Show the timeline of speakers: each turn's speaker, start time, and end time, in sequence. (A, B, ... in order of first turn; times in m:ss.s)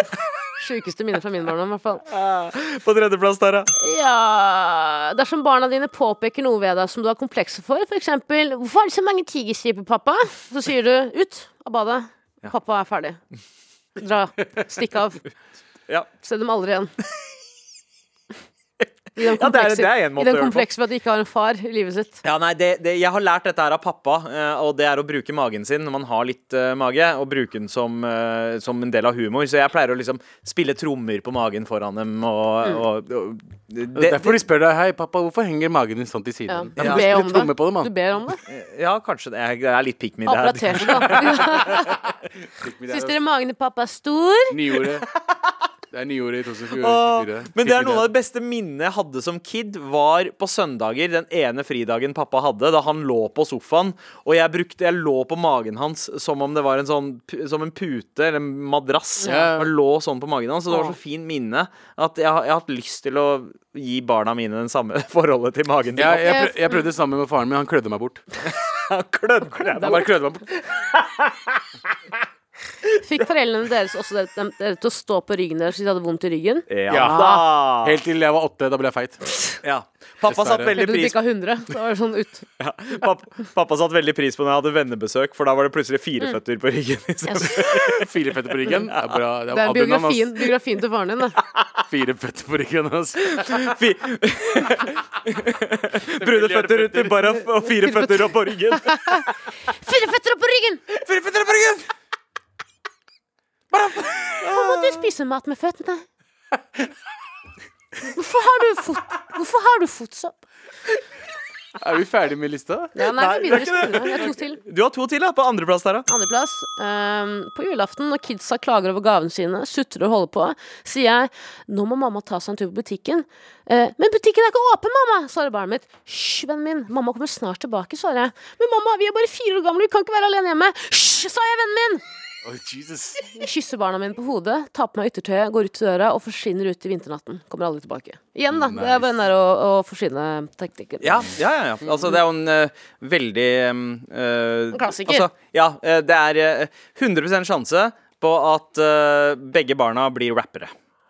0:00.6-0:02.0 A
0:02.1-0:03.7 B
0:03.8-0:13.2 A
0:14.0-0:15.2 A
0:16.2-0:16.9 A
0:19.2-0:22.2 A
0:19.2-0:20.7 B
0:22.2-0:34.4 B
0:34.0-0:37.9 C
0:36.5-0:38.4 A
0:36.8-0:37.1 B
0:38.5-0:41.9 B
0:40.3-0:42.0 A
0:40.9-0:41.9 C
0:42.5-0:43.2 C
0:42.9-0:44.6 A
0:44.5-0:45.1 C
0:45.9-0:48.1 C
0:46.8-1:06.4 B
0:59.2-0:59.7 C
1:00.7-1:01.0 A
1:06.0-1:08.2 C
1:06.2-1:06.8 A
1:08.4-1:10.1 B
1:09.8-1:10.5 C
1:10.8-1:11.6 B
1:13.0-1:17.4 A
1:16.7-1:18.0 B
1:16.9-1:19.3 C
1:19.6-1:21.2 B
1:20.3-1:20.8 C
1:20.8-1:22.4 A
1:22.6-1:28.1 B
1:27.3-1:27.8 A
1:27.6-1:30.5 C
1:28.9-1:29.2 B
1:29.5-1:31.4 A
1:31.9-1:33.8 C
1:33.2-1:39.2 B
1:36.0-1:37.4 C
1:37.9-1:40.8 A
1:41.0-1:41.8 B
1:41.1-1:41.8 C
1:43.7-1:44.4 C
1:44.4-1:46.0 A
1:44.4-1:44.9 B
1:48.0-1:50.4 A
1:51.8-1:53.0 C
1:53.0-1:54.6 A
1:53.0-1:56.1 B
1:56.1-2:12.0 A
2:12.4-2:13.3 C
2:13.3-2:21.3 A
2:18.5-2:19.2 C
2:21.0-2:30.7 B
2:24.7-2:25.3 A